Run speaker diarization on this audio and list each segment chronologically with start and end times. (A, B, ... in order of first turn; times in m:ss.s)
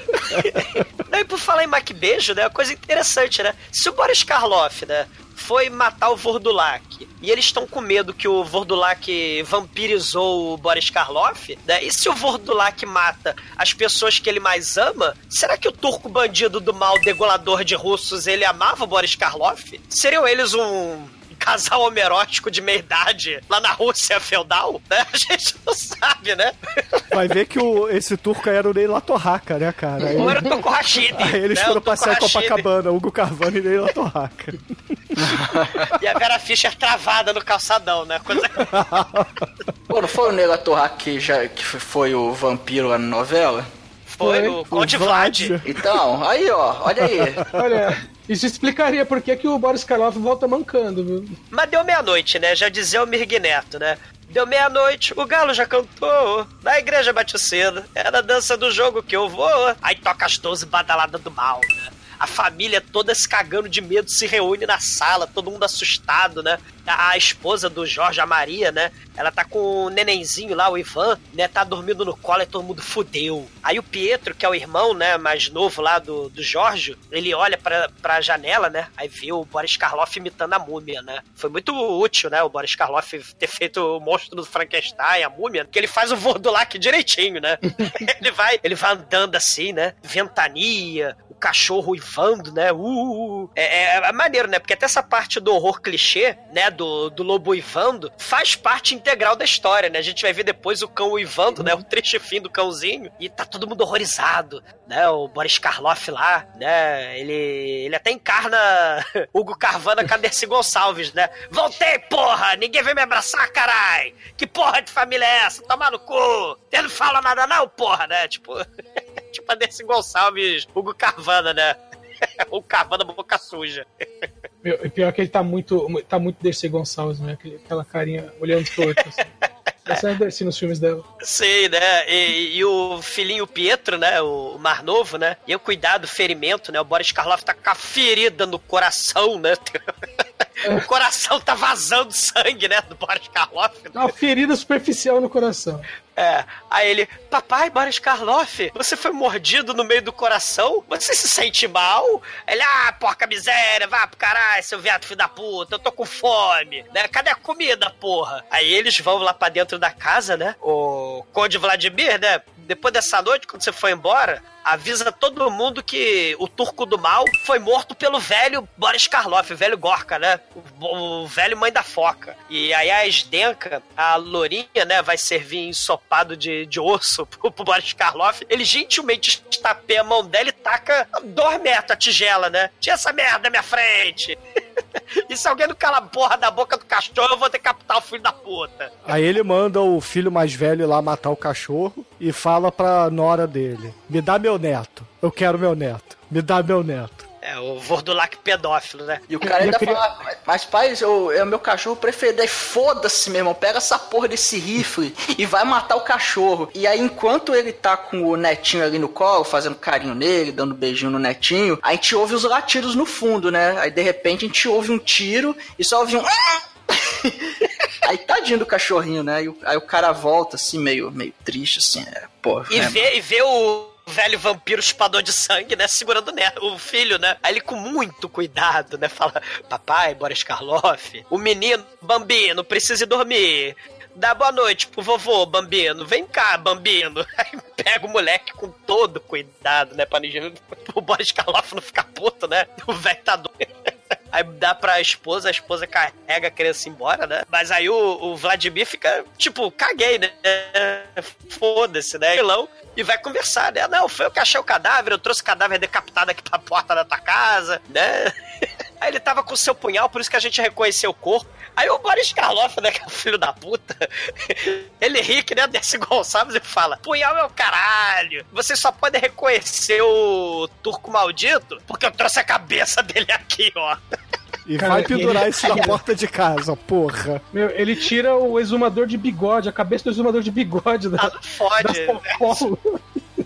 0:00.1-0:27.0 A
0:00.3-0:00.8 B
0:27.1-0:30.5 B
0:30.2-0:32.6 A
0:31.1-0:35.2 B
0:35.2-0:35.9 C
0:36.0-0:38.8 A
0:38.6-0:39.5 B
0:39.9-0:43.7 C
0:44.1-0:45.6 A
0:44.2-0:44.6 D
0:44.6-0:46.0 B
0:45.6-0:47.5 C
0:47.0-0:47.7 B
0:47.5-0:51.3 D
0:51.5-1:58.6 A
1:27.8-1:28.0 D
1:59.3-2:01.8 A
2:02.5-2:03.8 A
2:04.6-2:09.2 D
2:09.9-2:11.0 D
2:11.2-2:19.9 A
2:20.6-2:24.1 A
2:23.9-2:25.8 D
2:26.2-3:04.4 A
3:05.3-3:08.9 A
3:09.0-3:17.2 B
3:17.4-3:19.2 A
3:19.3-3:43.1 C
3:19.4-3:20.0 D
3:42.7-4:18.3 A
4:19.0-4:34.0 A
4:34.6-4:37.4 B
4:34.8-4:36.0 D
4:37.5-4:43.2 D
4:41.2-4:42.7 A